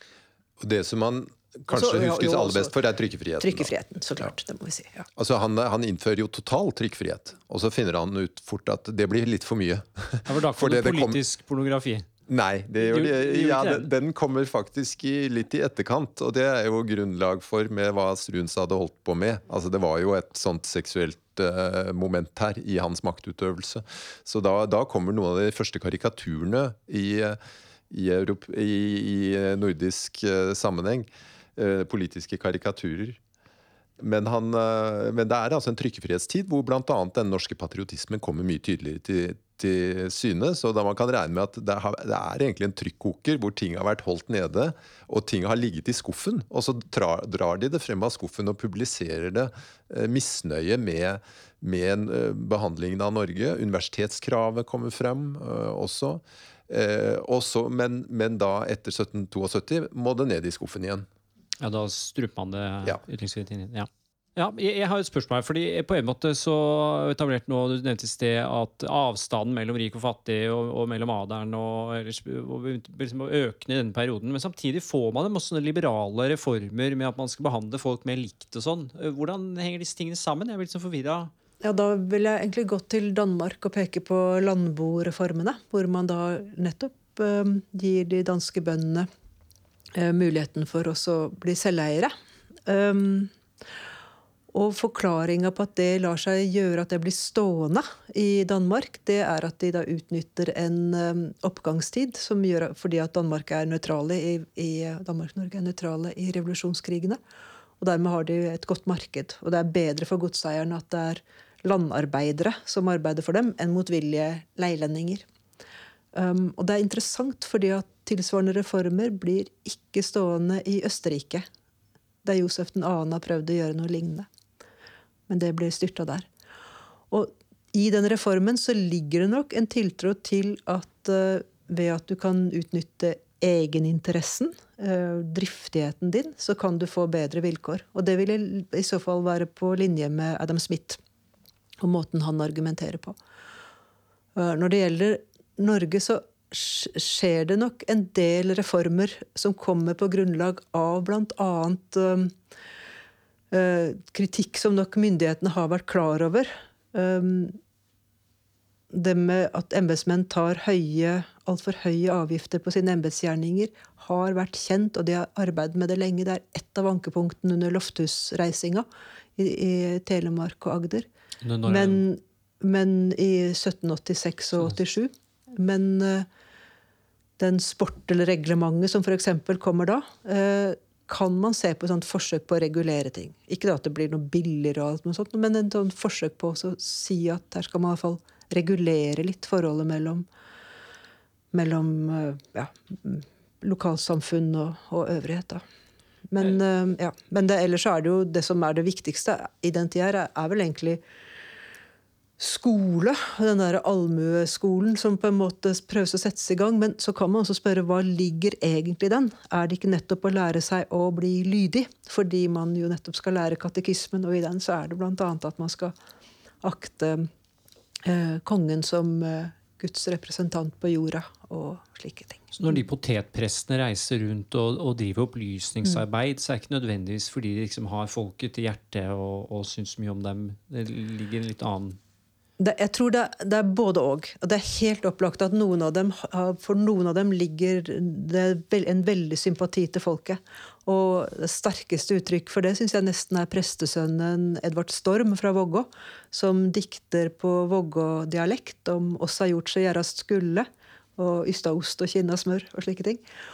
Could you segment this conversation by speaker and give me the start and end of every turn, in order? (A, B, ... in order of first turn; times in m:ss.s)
0:00.6-0:03.7 A
0:01.7-0:02.7 B
0:03.4-0:05.1 B
0:05.2-0:11.2 A
0:10.2-0:12.1 C
0:12.3-0:27.4 A
0:12.8-0:13.9 C
0:27.9-0:33.2 A
0:34.0-1:01.1 A
1:01.6-1:21.3 C
1:21.6-1:29.1 B
1:29.9-1:32.1 B
1:32.7-1:33.3 B
1:34.5-1:47.2 B
1:47.8-1:55.2 B
1:56.1-2:01.4 B
2:02.2-2:04.3 B
2:05.3-2:06.3 B
2:07.1-2:21.0 B
2:21.8-2:23.2 B
2:24.3-2:32.3 B
2:33.5-2:37.6 B
2:38.9-2:51.1 B
2:51.4-2:52.0 C
2:51.6-2:56.3 B
2:57.4-3:10.2 B
3:11.5-3:15.6 B
3:16.3-3:21.0 B
3:22.4-3:35.9 B
3:36.6-3:37.3 B
3:38.0-3:42.8 B
3:42.5-3:52.0 C
3:52.6-4:13.2 B